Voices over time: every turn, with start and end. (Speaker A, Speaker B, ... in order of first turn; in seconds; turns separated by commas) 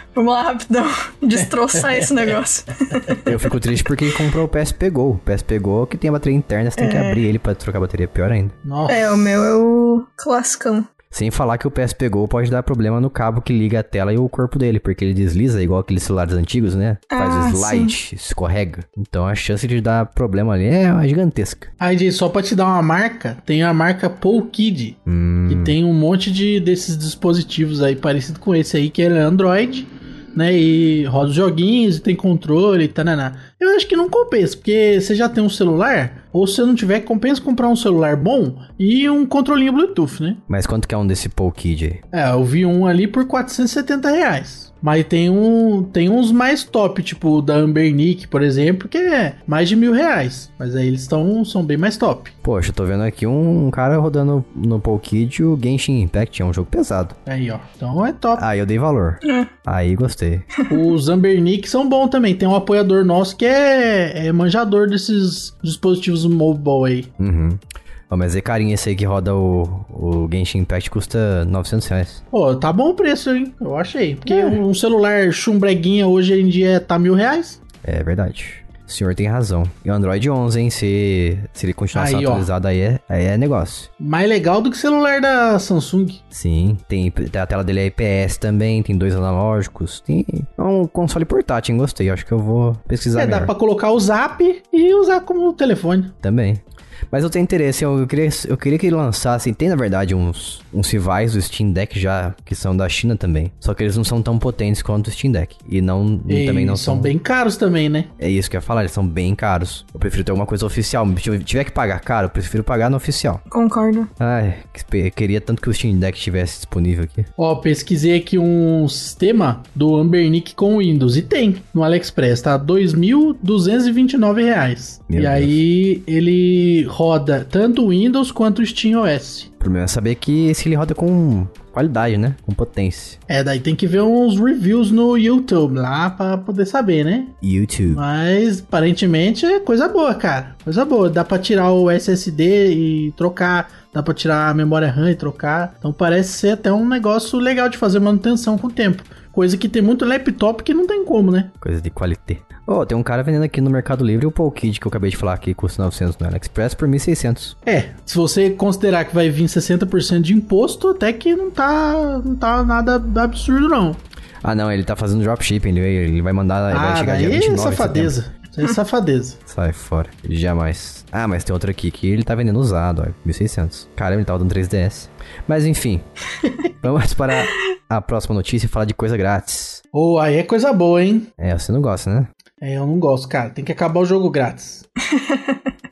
Speaker A: 0.1-3.3, Speaker B: 1.7-2.2, Speaker C: 3.2-8.5, Speaker A: 6.8-7.2, Speaker B: 8.6-9.5, Speaker A: 8.9-10.8, Speaker C: 11.1-21.7, Speaker A: 17.1-17.9, Speaker B: 21.8-40.4, Speaker C: 25.1-25.7, Speaker C: 40.5-42.0, Speaker B: 42.1-52.3, Speaker C: 52.4-57.2, Speaker B: 57.2-58.4, Speaker C: 58.3-60.5, Speaker A: 59.2-59.5, Speaker B: 60.7-67.1, Speaker C: 67.2-72.2, Speaker B: 72.3-77.6, Speaker C: 74.3-74.6, Speaker C: 77.8-83.9, Speaker B: 81.9-82.5, Speaker B: 84.0-86.2, Speaker C: 86.3-93.5, Speaker B: 93.1-96.1, Speaker C: 96.2-107.1, Speaker B: 106.3-108.1, Speaker C: 108.2-113.4, Speaker A: 113.5-114.1, Speaker C: 114.2-117.3, Speaker B: 117.4-129.5, Speaker C: 125.1-125.5, Speaker C: 129.6-133.2, Speaker B: 133.3-137.3, Speaker C: 137.4-138.0, Speaker B: 137.9-151.5, Speaker C: 151.6-157.6, Speaker B: 157.7-164.0, Speaker C: 164.4-168.1, Speaker B: 166.7-169.4, Speaker C: 169.5-176.0, Speaker C: 176.8-179.8, Speaker B: 179.9-181.3, Speaker C: 181.4-182.3, Speaker B: 182.6-184.8, Speaker A: 185.1-185.6